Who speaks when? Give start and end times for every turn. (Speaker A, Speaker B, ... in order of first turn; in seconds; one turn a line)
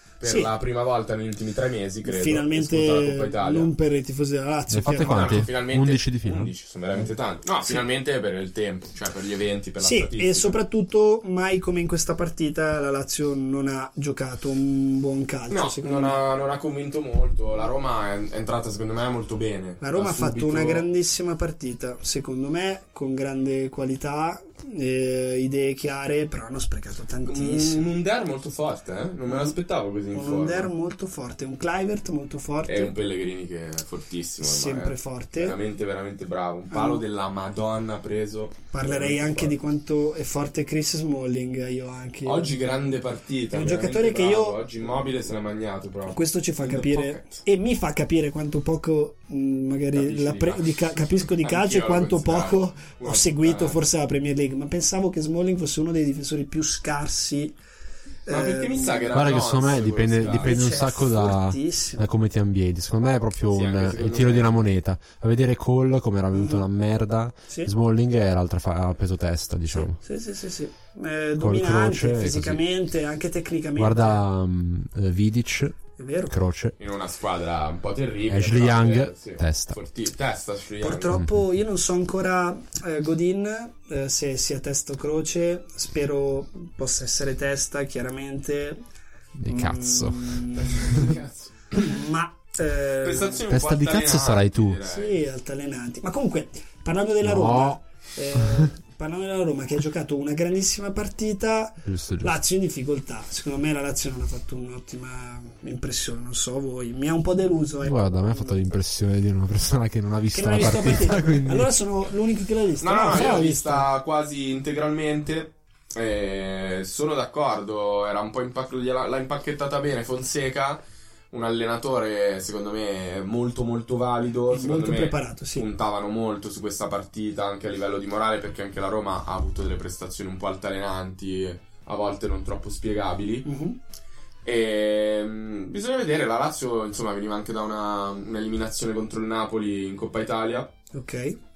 Speaker A: 0.2-3.7
Speaker B: 0.2-0.5
Speaker B: 2.0-5.5
Speaker C: 4.7-6.5
Speaker A: 4.9-10.6
Speaker B: 9.8-16.2
Speaker A: 15.5-20.8
Speaker B: 19.8-27.9
Speaker A: 27.2-30.7
Speaker B: 29.3-29.6
Speaker B: 30.1-32.9
Speaker A: 32.7-39.5
Speaker B: 34.4-35.6
Speaker B: 36.7-37.0
Speaker B: 38.7-42.6
Speaker A: 42.2-47.4
Speaker B: 43.5-44.6
Speaker B: 46.1-57.5
Speaker A: 49.9-53.8
Speaker B: 58.2-59.3
Speaker A: 58.3-60.7
Speaker C: 59.1-70.0
Speaker B: 60.2-62.1
Speaker A: 63.5-64.6
Speaker B: 66.3-66.7
Speaker B: 69.7-74.2
Speaker C: 71.4-72.6
Speaker C: 73.8-76.7
Speaker B: 76.0-76.4
Speaker A: 76.8-81.2
Speaker C: 78.3-79.8
Speaker B: 80.8-88.8
Speaker C: 81.1-81.4
Speaker C: 89.4-91.1
Speaker B: 89.5-93.4
Speaker A: 90.6-91.8
Speaker A: 93.0-95.2
Speaker C: 93.5-94.8
Speaker B: 94.8-108.7
Speaker C: 97.2-97.8
Speaker C: 98.3-98.7
Speaker C: 101.8-102.3
Speaker C: 107.8-111.7
Speaker B: 110.3-113.9
Speaker A: 112.8-133.5
Speaker B: 124.5-125.7
Speaker B: 133.4-133.8
Speaker A: 134.4-140.7
Speaker B: 140.9-141.4